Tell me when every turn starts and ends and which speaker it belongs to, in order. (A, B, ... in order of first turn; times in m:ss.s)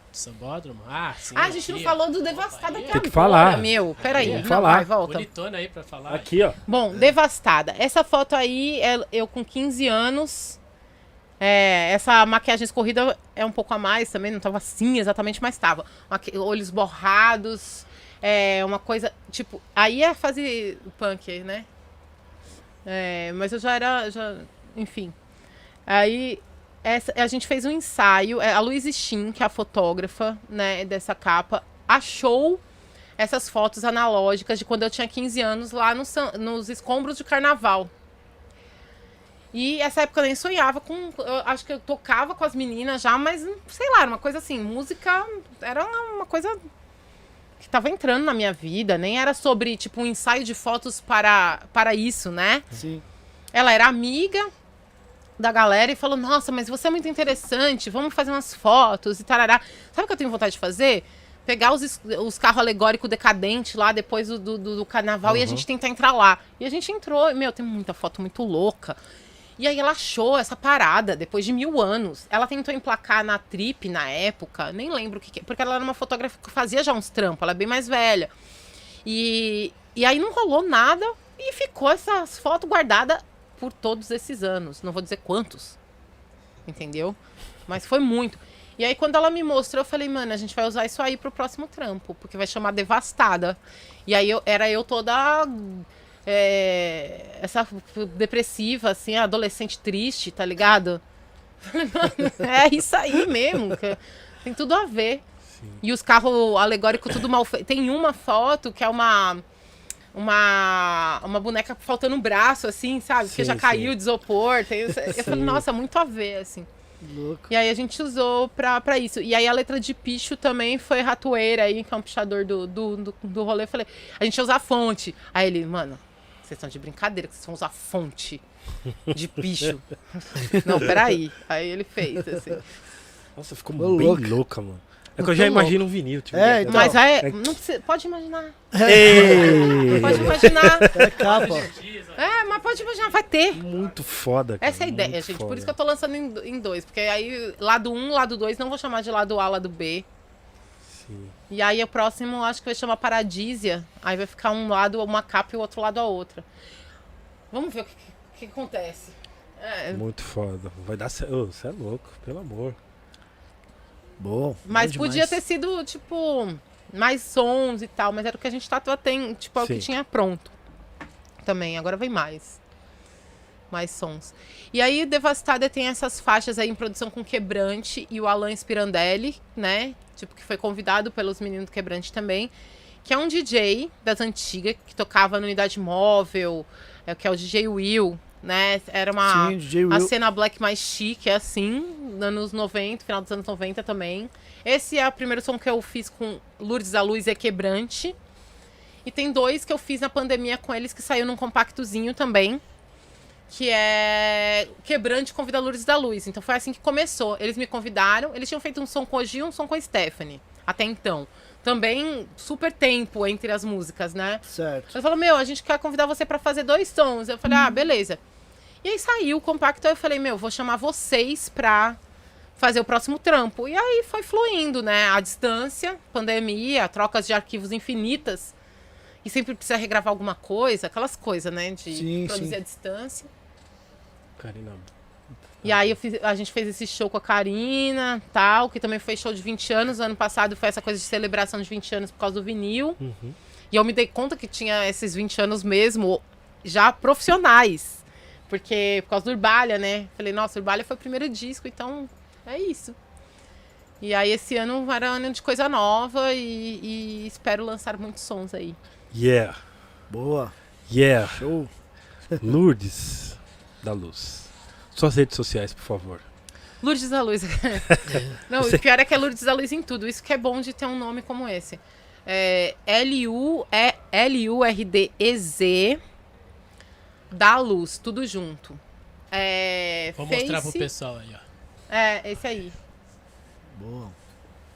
0:00.1-0:06.3 A
0:01.4-0:05.3 B
0:02.9-0:04.9 C
0:06.1-0:06.6 C
0:06.7-0:10.6 B
0:11.4-0:21.7 B
0:22.9-0:25.2 B
0:25.9-0:32.6 B
0:33.2-0:37.9 B
0:39.5-0:46.6 B
0:47.6-0:52.6 B
0:52.7-0:53.0 D
0:53.5-0:54.5 B
0:55.4-1:09.0 B
1:05.2-1:05.6 C
1:09.6-1:18.3 B
1:19.0-1:25.8 B
1:26.7-1:41.0 B
1:41.6-1:45.2 B
1:45.8-1:49.4 B
1:50.1-1:56.7 B
1:53.2-1:53.9 C
1:55.1-1:55.6 C
1:57.0-1:57.5 D
1:57.5-2:08.4 B
2:09.1-2:12.7 B
2:10.5-2:10.8 D
2:13.4-2:17.5 C
2:13.8-2:14.4 D
2:15.2-2:15.7 B
2:16.3-2:17.0 D
2:16.7-2:21.3 B
2:18.7-2:21.7 D
2:18.8-2:21.3 C
2:21.3-2:21.8 A
2:22.1-2:23.6 B
2:23.6-2:25.7 C
2:24.6-2:30.1 B
2:30.9-2:31.3 C
2:31.5-2:36.5 B
2:37.5-2:40.0 B
2:39.9-2:42.8 C
2:44.2-2:45.4 D
2:44.7-2:50.5 B
2:49.6-2:49.9 C
2:51.4-2:52.6 B
2:53.7-3:02.5 B
3:03.0-3:18.2 B
3:09.2-3:10.1 D
3:19.0-3:22.6 B
3:23.5-3:38.2 B
3:34.5-3:34.9 D
3:38.8-3:42.0 B
3:42.6-3:48.6 B
3:49.2-3:53.3 B
3:51.9-3:52.6 D
3:54.4-3:54.9 C
3:55.6-3:56.0 C
3:55.6-4:03.0 B
4:03.0-4:03.4 C
4:03.7-4:13.0 B
4:14.0-4:18.8 B
4:19.1-4:19.6 C
4:20.1-4:20.5 D
4:20.9-4:21.4 C
4:21.3-4:21.7 D
4:22.4-4:26.2 C
4:26.8-4:36.0 B
4:37.3-4:38.8 B
4:39.3-4:40.9 B
4:40.2-4:41.4 A
4:41.9-4:42.8 B
4:43.8-4:44.2 D